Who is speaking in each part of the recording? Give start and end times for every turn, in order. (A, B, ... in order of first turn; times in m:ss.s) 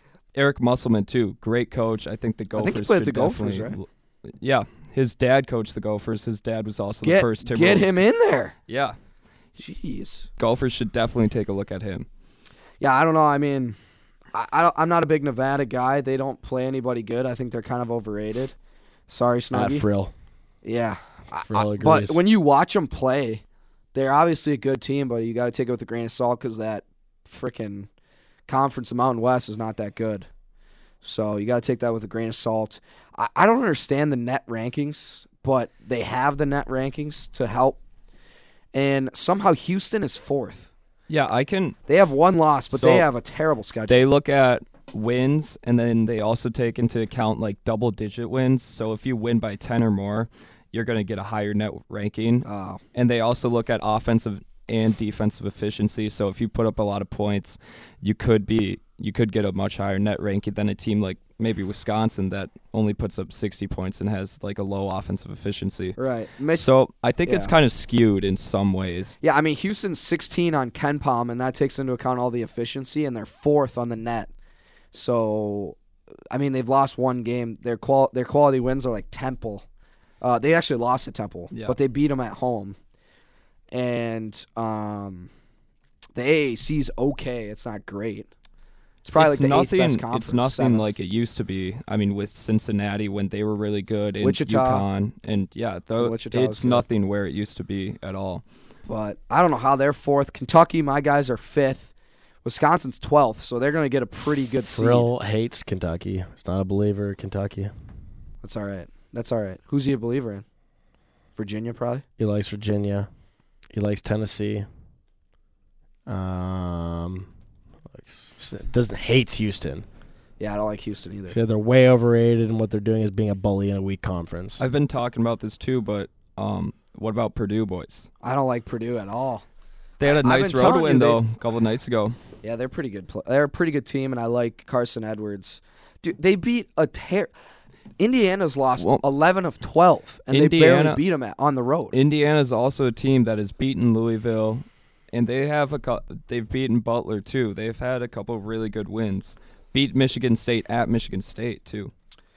0:00.3-0:08.0 A
0:02.6-0:03.8 B
0:07.0-0:08.5 B
0:08.7-0:09.0 A
0:09.6-0:10.3 B
0:10.4-0:12.1 A
0:12.8-0:13.8 B
0:14.3-0:18.5 B
0:19.1-0:19.8 B
0:19.5-0:20.1 C
0:20.6-0:23.4 B
0:21.4-0:22.2 C
0:23.9-0:27.9 B
0:28.5-0:30.3 B
0:31.0-0:37.8 B
0:38.7-0:40.7 B
0:41.1-0:41.8 A
0:41.9-0:44.0 B
0:42.7-0:43.1 A
0:43.9-1:06.0 A
0:52.4-0:52.8 B
1:06.0-1:06.7 B
1:06.5-1:09.2 A
1:07.2-1:07.5 B
1:09.2-1:14.3 B
1:14.9-1:15.8 B
1:16.3-1:19.6 B
1:20.2-1:22.8 B
1:21.5-1:21.8 A
1:23.7-1:25.3 B
1:26.1-1:28.3 B
1:29.0-1:30.9 B
1:29.1-1:38.4 A
1:34.2-1:34.8 B
1:36.0-1:36.8 B
1:38.9-1:41.9 B
1:42.4-1:45.1 B
1:44.6-1:47.7 C
1:48.4-1:50.4 B
1:51.4-1:52.0 B
1:52.2-1:53.1 C
1:53.7-1:54.6 C
1:56.0-1:57.3 C
1:57.9-1:59.8 C
2:00.4-2:01.4 B
2:01.3-2:04.6 C
2:04.6-2:08.1 A
2:08.2-2:09.4 B
2:10.0-2:12.2 A
2:10.0-2:11.2 B
2:12.4-2:17.3 B
2:18.0-2:22.0 B
2:18.8-2:19.0 A
2:20.3-2:21.0 A
2:21.9-2:31.9 A